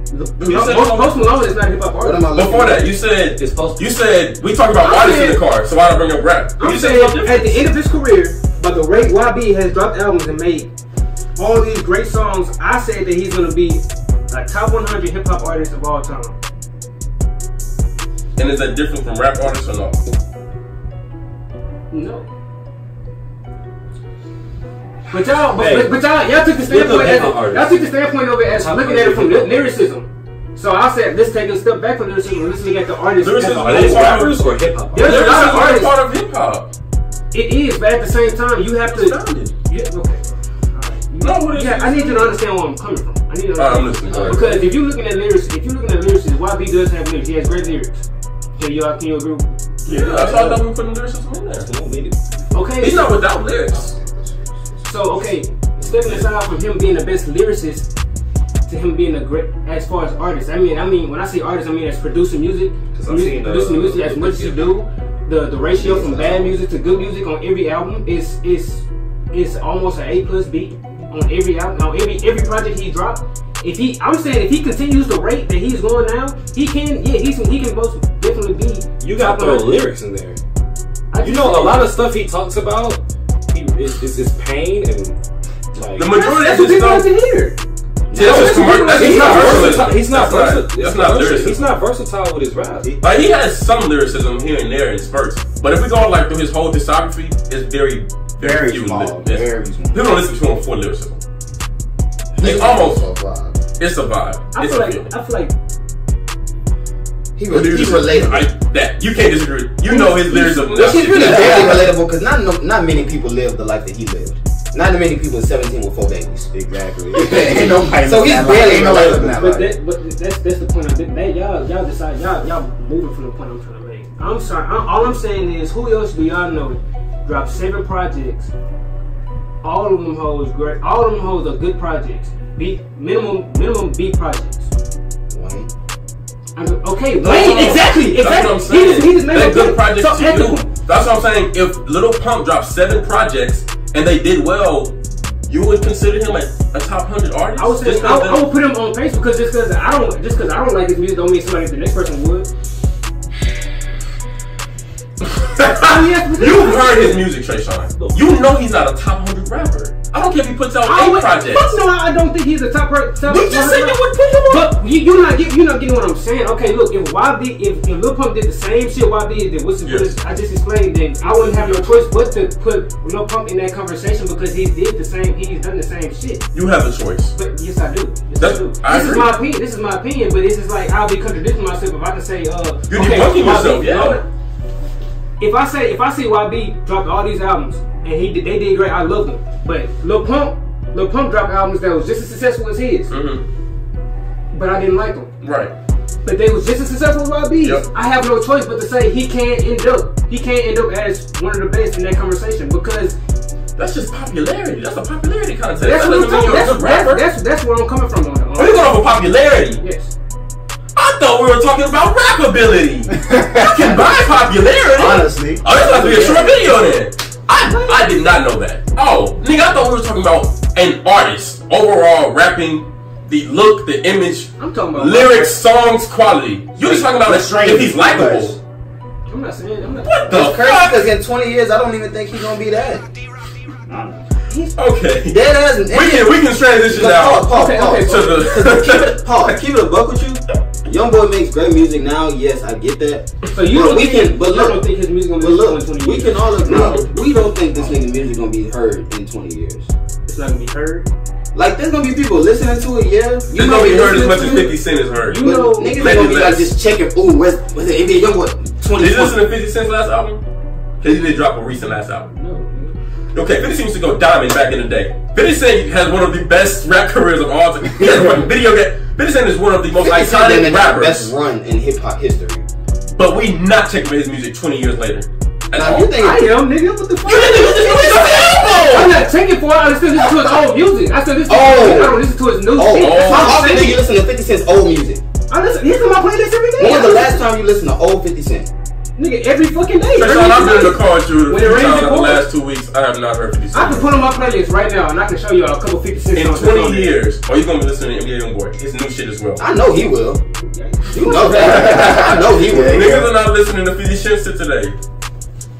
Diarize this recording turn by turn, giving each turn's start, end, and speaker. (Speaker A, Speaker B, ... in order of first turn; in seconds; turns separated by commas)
Speaker A: 0.3-2.3, Speaker B: 0.4-0.8, Speaker C: 0.4-1.3, Speaker B: 2.0-2.9, Speaker C: 2.3-7.6, Speaker D: 3.4-3.9, Speaker A: 4.8-5.4, Speaker A: 6.6-10.7, Speaker A: 11.4-16.4, Speaker C: 18.4-20.0, Speaker A: 21.9-22.3, Speaker A: 25.1-34.3, Speaker D: 25.1-26.0, Speaker D: 26.6-27.8, Speaker D: 28.5-29.7, Speaker C: 33.2-34.4, Speaker D: 33.6-35.5, Speaker A: 34.9-35.9, Speaker C: 34.9-36.7, Speaker A: 37.3-48.0, Speaker C: 38.9-39.5, Speaker C: 41.2-42.3, Speaker C: 43.6-44.6, Speaker B: 44.1-44.7, Speaker A: 48.6-49.5, Speaker C: 49.9-51.7, Speaker D: 49.9-50.6, Speaker D: 51.6-52.9, Speaker A: 52.5-53.2, Speaker C: 52.8-53.9, Speaker E: 53.7-55.2, Speaker A: 54.9-57.9, Speaker D: 55.9-56.3, Speaker A: 58.6-79.8, Speaker D: 62.9-64.7, Speaker B: 65.8-66.5, Speaker D: 79.0-80.4, Speaker A: 81.1-81.9, Speaker D: 81.2-85.2, Speaker D: 85.7-86.1, Speaker C: 86.0-87.1, Speaker A: 86.0-87.6, Speaker C: 88.1-91.7, Speaker D: 88.1-93.0, Speaker A: 88.2-89.9, Speaker C: 93.0-101.2, Speaker E: 98.4-100.1, Speaker B: 102.4-103.6, Speaker C: 102.4-103.0, Speaker C: 103.8-105.1, Speaker A: 104.5-105.5, Speaker B: 107.4-108.5, Speaker C: 107.5-111.9, Speaker A: 109.9-110.8, Speaker B: 110.0-116.5, Speaker E: 111.0-111.9, Speaker E: 116.5-119.7, Speaker B: 117.1-119.4, Speaker A: 119.2-128.5, Speaker A: 129.6-134.7, Speaker B: 135.3-135.7, Speaker A: 136.6-140.7, Speaker C: 137.2-144.9, Speaker C: 145.5-148.5, Speaker A: 147.6-152.5, Speaker C: 155.2-161.7, Speaker A: 155.8-157.2, Speaker D: 157.9-158.3, Speaker A: 160.8-176.4, Speaker C: 163.2-164.8, Speaker C: 169.8-170.1, Speaker C: 171.4-171.9, Speaker C: 176.5-177.3, Speaker A: 177.4-184.2, Speaker C: 178.4-179.3, Speaker C: 182.9-184.2, Speaker A: 185.4-193.1, Speaker C: 193.1-193.4, Speaker A: 194.5-195.3, Speaker C: 195.4-195.7, Speaker A: 196.2-203.2, Speaker C: 203.8-207.2, Speaker A: 205.8-210.1, Speaker C: 208.6-209.8, Speaker C: 210.9-228.6, Speaker E: 213.2-214.2, Speaker E: 214.9-215.6, Speaker B: 215.6-216.6, Speaker A: 217.5-218.2, Speaker A: 224.6-225.6, Speaker E: 226.8-228.6, Speaker A: 229.3-230.2, Speaker C: 230.0-231.1, Speaker B: 230.3-233.1, Speaker E: 233.9-234.2, Speaker C: 234.8-239.3, Speaker B: 235.3-249.9, Speaker A: 237.5-238.4, Speaker A: 243.5-247.0, Speaker A: 250.2-251.1, Speaker B: 251.5-254.7, Speaker C: 253.5-256.7, Speaker A: 254.2-254.7, Speaker A: 255.2-256.3, Speaker B: 255.4-259.4, Speaker C: 259.0-260.4, Speaker C: 261.0-262.3, Speaker A: 262.3-262.9, Speaker C: 263.3-271.3, Speaker B: 270.0-272.7, Speaker C: 273.2-276.1, Speaker B: 275.7-276.6, Speaker A: 276.2-284.0, Speaker C: 277.2-279.2, Speaker B: 278.2-278.9, Speaker B: 281.5-285.2, Speaker C: 282.9-283.7, Speaker A: 285.5-287.4, Speaker B: 286.8-288.7, Speaker A: 289.1-292.4, Speaker C: 290.1-294.1, Speaker A: 293.7-297.1, Speaker C: 296.4-299.6, Speaker B: 299.6-300.4, Speaker A: 300.6-301.7, Speaker B: 301.1-303.2, Speaker C: 301.4-302.4, Speaker E: 301.5-303.3, Speaker C: 302.9-304.9